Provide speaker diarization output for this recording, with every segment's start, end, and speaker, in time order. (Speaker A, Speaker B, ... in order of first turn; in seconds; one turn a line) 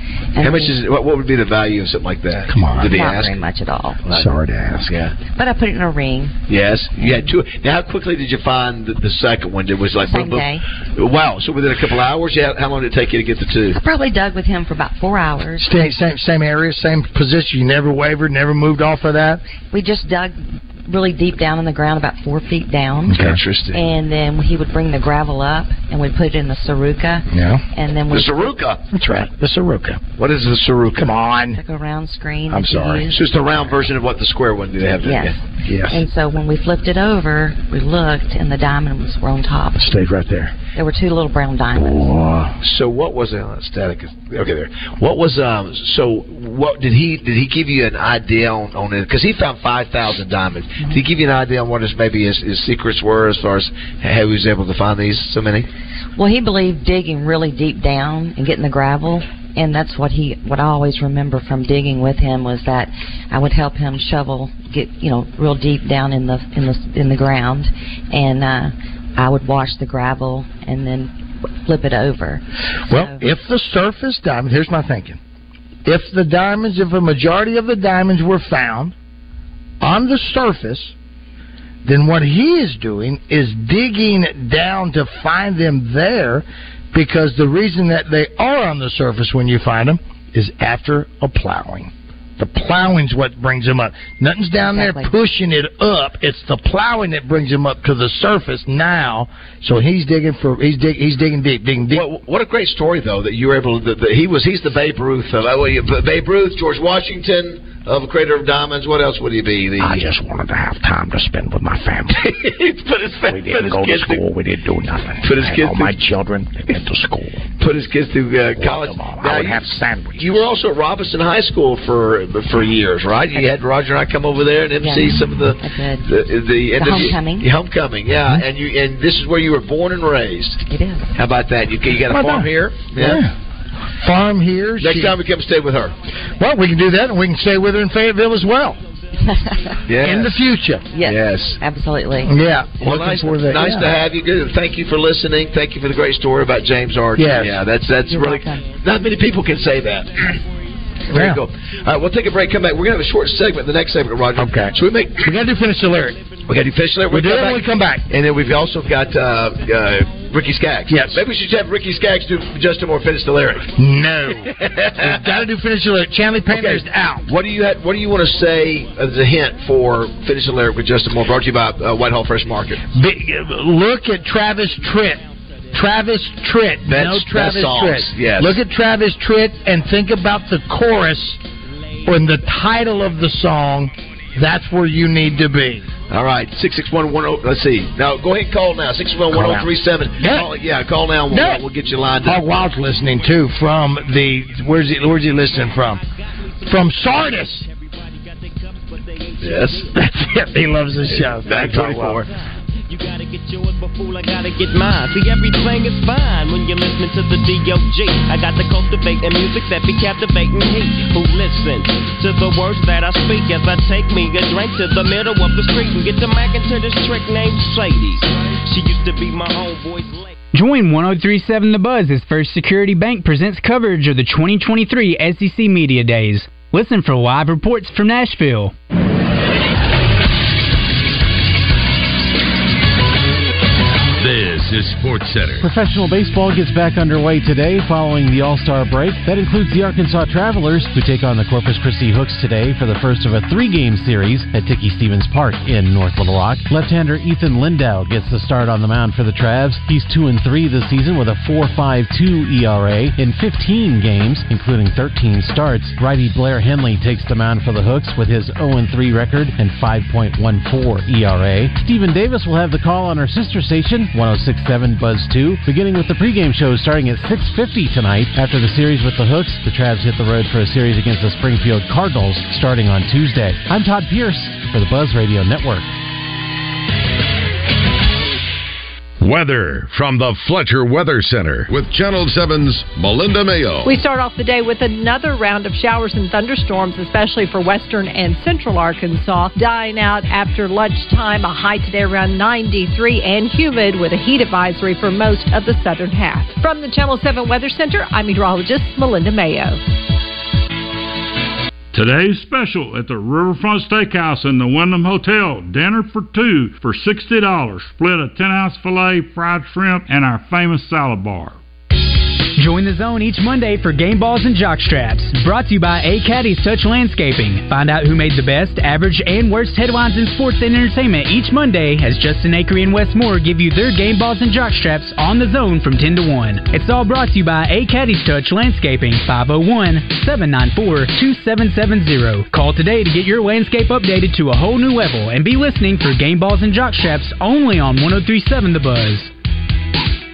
Speaker A: 0.3-0.8
Speaker B: 0.4-3.4
Speaker C: 2.5-3.0
Speaker A: 2.8-4.0
Speaker B: 4.0-5.2
Speaker C: 4.1-4.9
Speaker A: 5.2-6.3
Speaker B: 6.5-13.8
Speaker A: 7.0-7.3
Speaker A: 10.0-10.6
Speaker A: 13.7-15.7
Speaker C: 15.6-19.4
Speaker A: 19.7-28.6
Speaker C: 23.1-23.4
Speaker B: 23.1-23.8
Speaker C: 27.3-27.6
Speaker B: 28.1-28.8
Speaker C: 28.9-30.0
Speaker B: 30.2-31.1
Speaker C: 31.0-31.6
Speaker A: 31.5-33.7
Speaker C: 32.5-33.0
Speaker B: 33.1-35.5
Speaker A: 34.8-39.9
Speaker C: 35.6-36.0
Speaker C: 39.8-40.5
Speaker A: 40.7-42.1
Speaker C: 41.8-42.5
Speaker B: 42.6-55.7
Speaker A: 56.1-71.1
Speaker A: 71.6-73.3
Speaker C: 72.9-75.2
Speaker C: 75.8-78.9
Speaker C: 79.8-80.9
Speaker C: 81.8-102.0
Speaker A: 94.6-95.1
Speaker B: 101.9-110.1
Speaker C: 109.8-112.2
Speaker B: 112.1-114.2
Speaker C: 113.3-117.5
Speaker B: 115.2-116.0
Speaker B: 117.6-119.6
Speaker C: 118.6-120.3
Speaker B: 120.2-133.2
Speaker A: 124.8-126.1
Speaker A: 126.7-127.5
Speaker A: 130.7-131.2
Speaker C: 132.1-133.3
Speaker C: 134.0-135.2
Speaker B: 134.8-135.9
Speaker D: 135.7-139.1
Speaker C: 136.4-138.8
Speaker A: 139.2-139.8
Speaker B: 139.8-140.4
Speaker C: 140.0-140.8
Speaker D: 140.6-141.5
Speaker A: 140.9-142.4
Speaker B: 141.0-141.6
Speaker C: 142.2-143.9
Speaker B: 142.8-150.3
Speaker D: 143.5-144.9
Speaker D: 145.9-147.2
Speaker C: 147.2-147.6
Speaker A: 148.0-148.6
Speaker D: 148.5-151.1
Speaker B: 151.1-155.3
Speaker C: 151.1-151.4
Speaker D: 151.6-160.6
Speaker C: 154.3-156.2
Speaker B: 156.5-163.7
Speaker C: 157.1-158.1
Speaker C: 160.9-161.2
Speaker D: 161.2-161.9
Speaker C: 163.8-167.3
Speaker B: 164.4-165.3
Speaker D: 166.0-166.4
Speaker B: 166.5-172.8
Speaker D: 167.6-170.8
Speaker D: 171.5-173.3
Speaker C: 172.9-175.2
Speaker D: 173.9-176.2
Speaker C: 175.7-181.4
Speaker B: 176.8-178.6
Speaker D: 181.6-183.8
Speaker C: 182.1-185.8
Speaker B: 186.1-192.5
Speaker C: 189.3-190.5
Speaker C: 191.3-191.6
Speaker C: 192.2-196.0
Speaker D: 192.5-193.1
Speaker D: 194.1-201.3
Speaker C: 196.7-197.7
Speaker B: 199.4-199.9
Speaker C: 199.9-202.2
Speaker B: 201.1-202.3
Speaker D: 202.1-220.4
Speaker E: 220.5-228.7
Speaker F: 234.2-235.7
Speaker G: 235.6-275.9
Speaker F: 279.2-283.9
Speaker H: 283.8-299.8
Speaker I: 301.9-311.6
Speaker E: 312.6-339.3